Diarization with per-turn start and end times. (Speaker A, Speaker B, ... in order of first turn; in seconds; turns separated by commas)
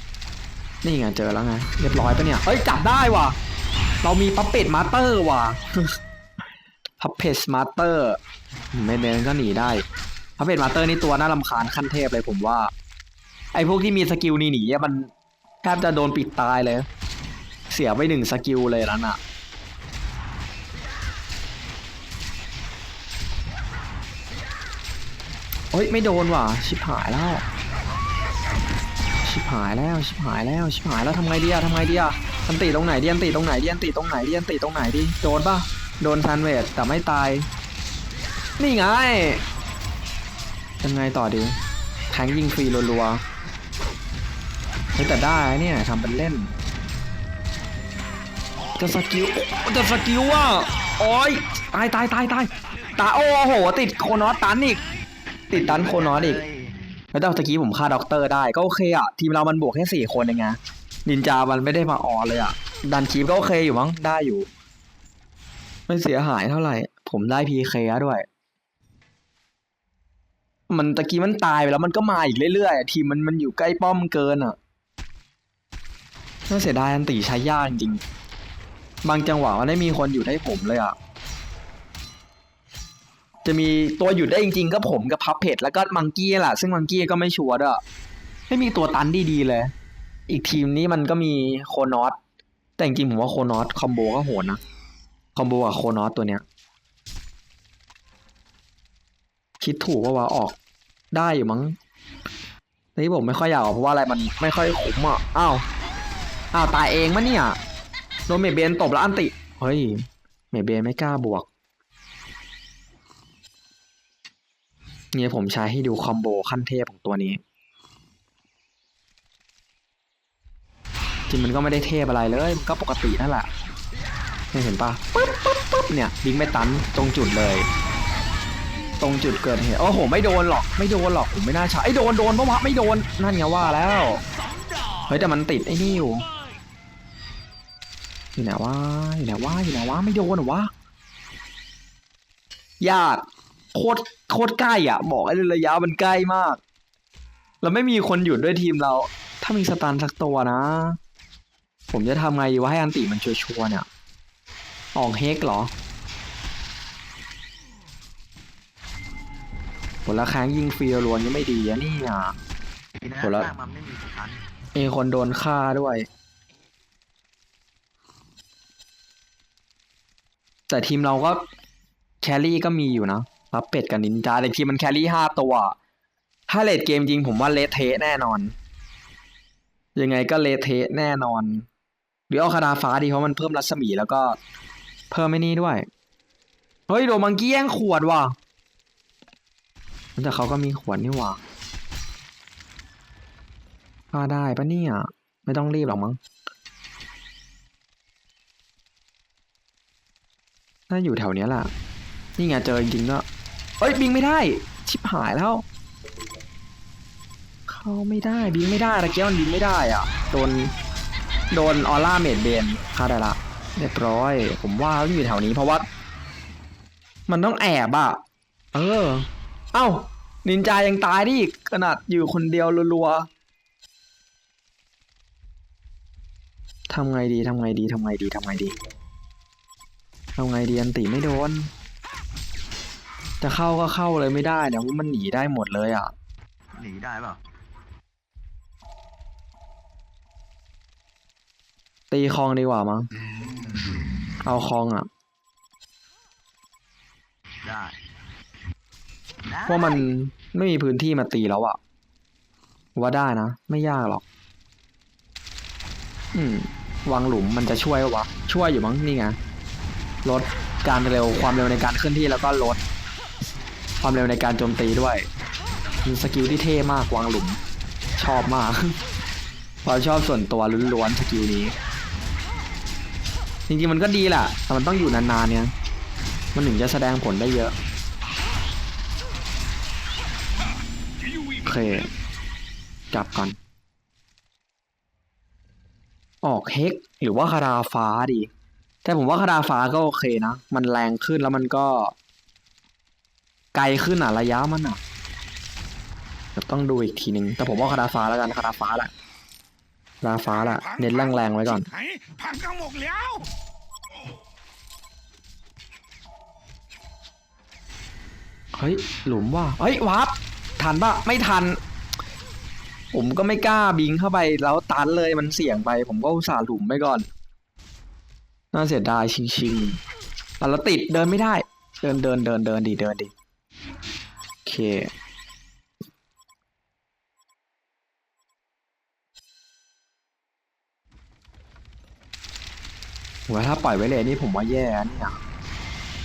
Speaker A: 0.8-3.4, Speaker A: 4.0-6.0, Speaker A: 7.0-8.2, Speaker A: 8.7-9.8, Speaker A: 10.4-12.7, Speaker A: 13.5-15.1, Speaker A: 15.6-16.9, Speaker A: 17.7-19.2, Speaker A: 25.7-27.4, Speaker A: 29.2-37.5, Speaker A: 38.6-39.4, Speaker A: 40.8-41.6, Speaker A: 42.1-43.2, Speaker A: 45.0-46.5, Speaker A: 48.8-54.8, Speaker A: 55.5-56.4, Speaker B: 55.5-56.8, Speaker A: 57.1-64.5, Speaker A: 65.9-68.2, Speaker A: 70.7-74.6, Speaker A: 76.5-78.0, Speaker A: 79.0-81.0, Speaker A: 83.4-87.8, Speaker A: 88.5-89.7, Speaker A: 90.3-92.2, Speaker A: 92.8-94.6, Speaker A: 95.3-96.4, Speaker A: 99.6-100.5, Speaker A: 101.1-101.8, Speaker A: 103.0-105.6, Speaker A: 106.5-107.6, Speaker A: 108.3-111.5, Speaker A: 115.1-117.4, Speaker A: 121.3-123.5, Speaker A: 124.5-127.7, Speaker A: 129.0-134.2, Speaker A: 135.1-136.2, Speaker A: 138.3-140.7, Speaker A: 142.8-146.6, Speaker A: 147.6-151.0, Speaker A: 151.9-153.9, Speaker A: 154.9-155.7, Speaker A: 160.1-162.3, Speaker B: 162.9-164.5, Speaker A: 163.2-163.5, Speaker A: 164.7-166.1, Speaker A: 170.7-171.4, Speaker A: 172.2-175.8, Speaker A: 176.5-178.5, Speaker A: 179.9-181.7, Speaker A: 182.3-184.4, Speaker A: 185.1-185.9, Speaker A: 186.9-188.3, Speaker A: 190.2-191.4, Speaker A: 194.1-196.2, Speaker A: 200.9-201.7, Speaker A: 202.4-203.2, Speaker A: 203.8-205.6, Speaker A: 207.7-210.7, Speaker A: 211.5-215.8, Speaker A: 217.3-218.2, Speaker A: 218.7-223.3, Speaker A: 226.9-228.8, Speaker A: 230.4-231.7, Speaker A: 233.4-236.1, Speaker B: 236.7-237.4, Speaker A: 242.1-243.1, Speaker A: 244.4-245.1, Speaker B: 247.6-248.0, Speaker B: 249.4-250.1, Speaker A: 249.7-251.8, Speaker A: 252.9-254.2, Speaker A: 256.3-259.4, Speaker A: 260.2-262.8, Speaker A: 264.0-265.3, Speaker A: 266.0-267.6, Speaker A: 268.2-269.0, Speaker A: 269.8-271.7, Speaker A: 273.7-275.7, Speaker A: 276.5-277.7, Speaker C: 281.2-282.0, Speaker A: 281.6-282.1, Speaker A: 283.1-283.6, Speaker A: 286.4-288.5, Speaker A: 289.0-292.1, Speaker A: 293.7-295.0, Speaker A: 296.6-299.1, Speaker A: 300.2-301.9, Speaker C: 300.5-303.5, Speaker A: 308.7-311.8, Speaker A: 313.1-317.2, Speaker A: 318.7-320.0, Speaker A: 320.6-323.3, Speaker A: 324.6-325.1, Speaker A: 333.5-335.4